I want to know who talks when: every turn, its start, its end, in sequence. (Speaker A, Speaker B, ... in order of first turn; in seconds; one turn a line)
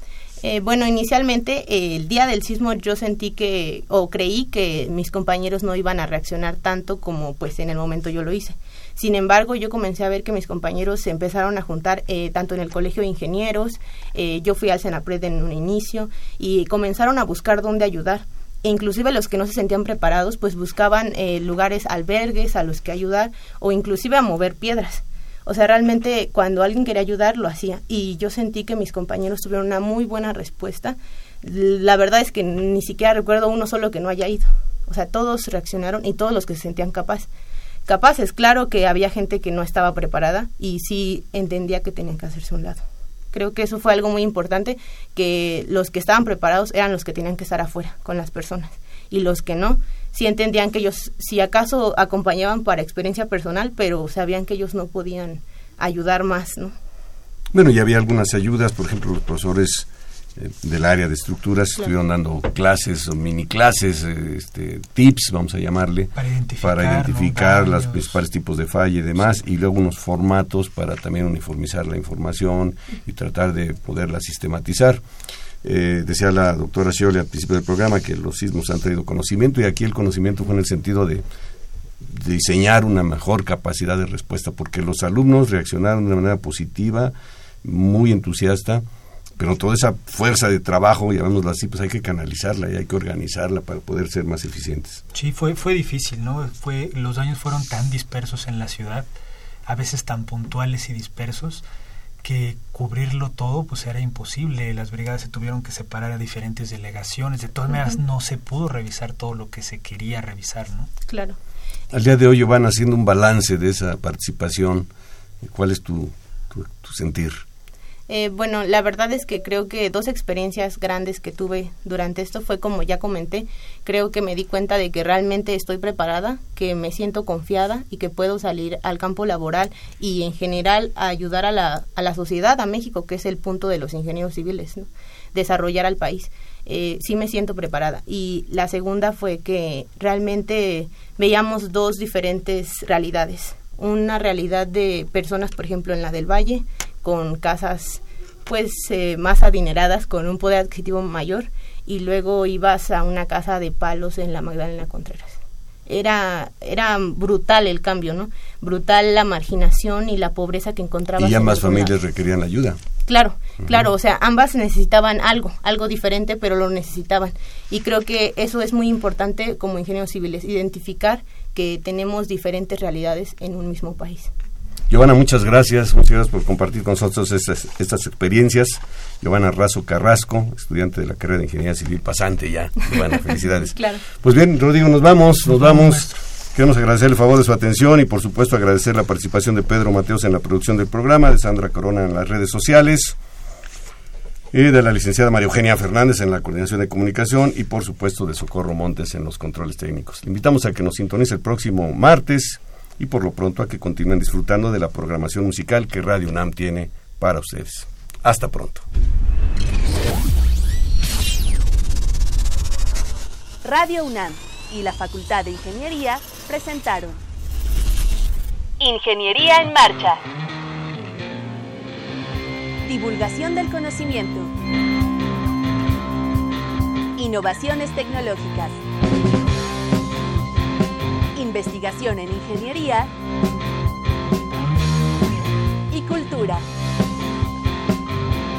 Speaker A: 0.4-37.3
Speaker A: 37.9-56.7
Speaker B: 57.5-75.0
Speaker C: 66.1-68.2
Speaker B: 75.6-81.2
Speaker B: 82.0-88.8
Speaker B: 89.4-95.0
Speaker C: 95.1-99.1
Speaker C: 99.7-101.6
Speaker C: 102.2-110.9
Speaker A: 111.1-111.4
Speaker B: 111.9-114.9
Speaker B: 115.4-117.4
Speaker A: 118.1-161.9
Speaker B: 161.2-162.8
Speaker A: 163.1-174.3
Speaker B: 174.9-193.2
Speaker A: 183.8-184.0
Speaker C: 185.5-186.2
Speaker B: 194.5-208.8
Speaker D: 213.6-217.2
Speaker D: 218.8-220.2
Speaker D: 222.8-224.5
Speaker D: 227.2-228.8
Speaker D: 231.3-233.1
Speaker D: 235.9-236.6